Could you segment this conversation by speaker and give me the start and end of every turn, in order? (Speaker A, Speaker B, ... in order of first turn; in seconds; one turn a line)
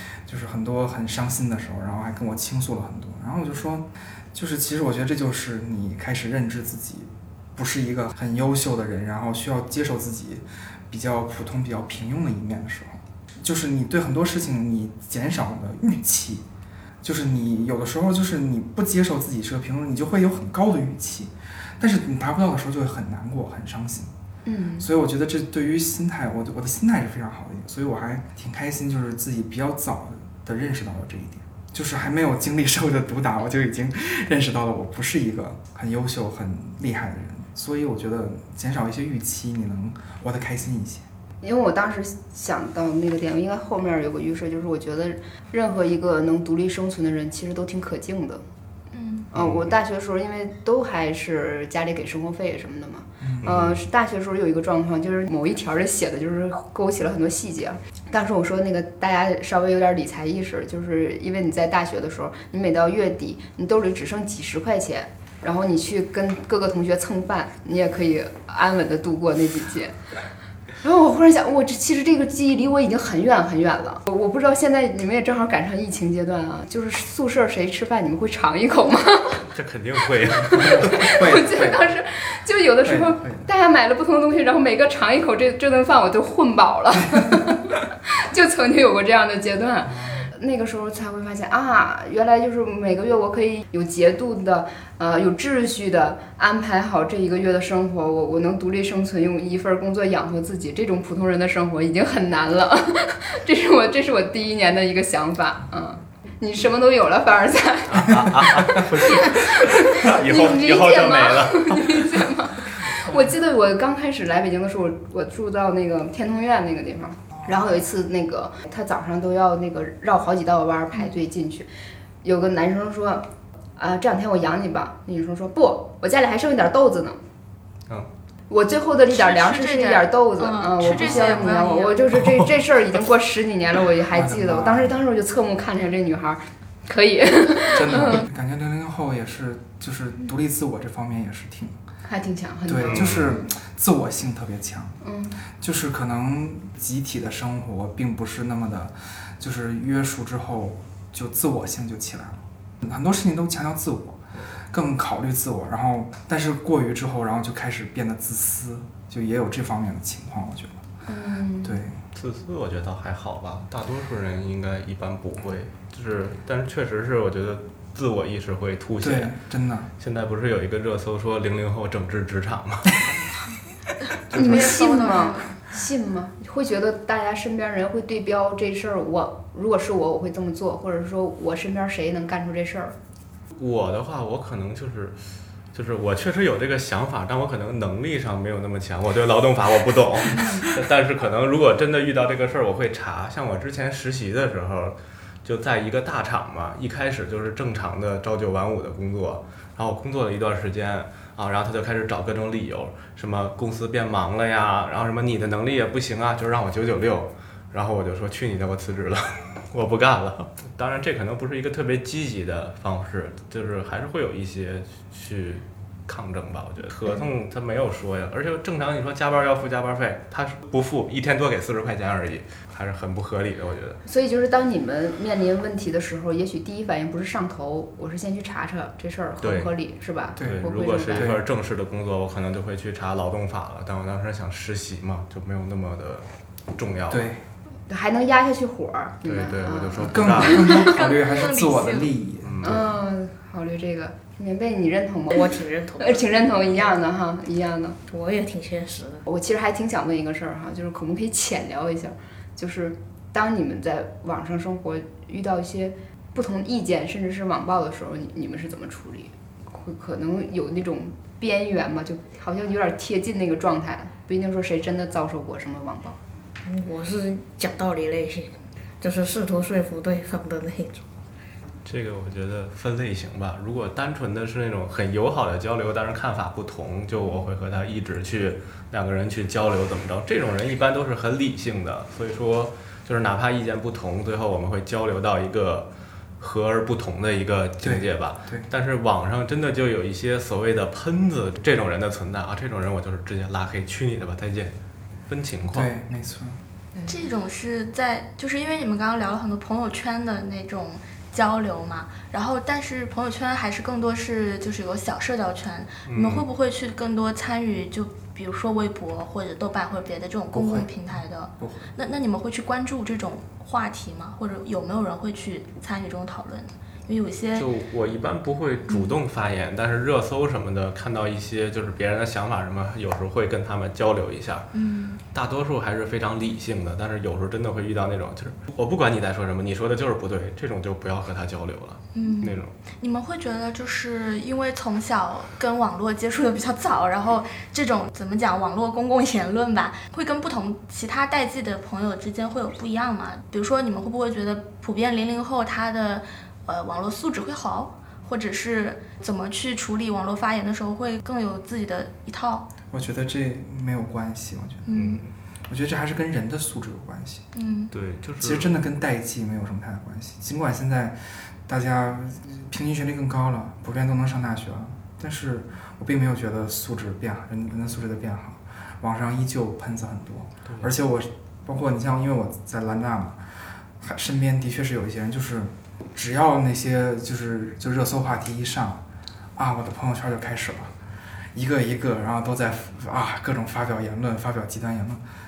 Speaker A: 0.2-16.4
Speaker A: 17.0-24.1
Speaker B: 24.4-24.9
Speaker A: 24.8-41.0
Speaker B: 41.4-48.4
Speaker C: 48.9-49.3
Speaker B: 49.3-70.0
Speaker A: 53.2-53.5
Speaker D: 53.4-53.8
Speaker B: 70.8-79.4
Speaker D: 79.4-81.1
Speaker B: 80.5-108.2
Speaker A: 80.6-81.8
Speaker A: 82.8-83.5
Speaker A: 87.2-87.5
Speaker A: 89.8-90.3
Speaker D: 107.9-112.1
Speaker B: 108.8-121.7
Speaker B: 122.2-127.2
Speaker B: 128.5-138.2
Speaker C: 129.1-132.1
Speaker A: 130.8-131.5
Speaker A: 134.1-135.0
Speaker A: 137.7-141.8
Speaker B: 142.1-143.2
Speaker A: 142.7-145.0
Speaker D: 142.9-143.3
Speaker B: 145.0-145.4
Speaker A: 145.6-160.8
Speaker B: 161.1-161.8
Speaker A: 161.6-162.0
Speaker D: 162.1-169.3
Speaker A: 169.0-169.9
Speaker D: 170.0-173.0
Speaker B: 174.3-182.9
Speaker D: 174.3-174.6
Speaker C: 174.3-175.6
Speaker D: 183.5-185.2
Speaker D: 185.7-224.0
Speaker B: 224.0-231.3
Speaker D: 229.4-229.7
Speaker A: 230.4-231.4
Speaker D: 230.4-237.3
Speaker A: 237.1-237.4
Speaker B: 237.9-240.5
Speaker D: 239.2-240.7
Speaker A: 240.1-242.9
Speaker C: 240.5-242.1
Speaker D: 242.4-242.9
Speaker B: 242.6-248.0
Speaker E: 245.3-246.9
Speaker E: 248.1-249.2
Speaker B: 249.2-266.2
Speaker E: 266.6-271.1
Speaker D: 271.8-285.9
Speaker D: 286.4-294.7
Speaker A: 287.8-288.7
Speaker D: 295.3-295.9
Speaker A: 295.7-296.6
Speaker C: 297.0-317.7
Speaker D: 306.1-306.4
Speaker A: 310.5-311.9
Speaker D: 317.5-324.7
Speaker C: 324.7-325.2
Speaker D: 325.3-332.7
Speaker C: 332.1-352.7
Speaker A: 352.9-354.9
Speaker C: 354.9-355.2
Speaker D: 354.9-355.3
Speaker A: 355.7-357.4
Speaker C: 357.5-357.9
Speaker D: 357.9-358.7
Speaker A: 358.4-373.4
Speaker D: 370.6-370.9
Speaker A: 374.0-379.0
Speaker A: 379.6-380.9
Speaker A: 381.5-385.2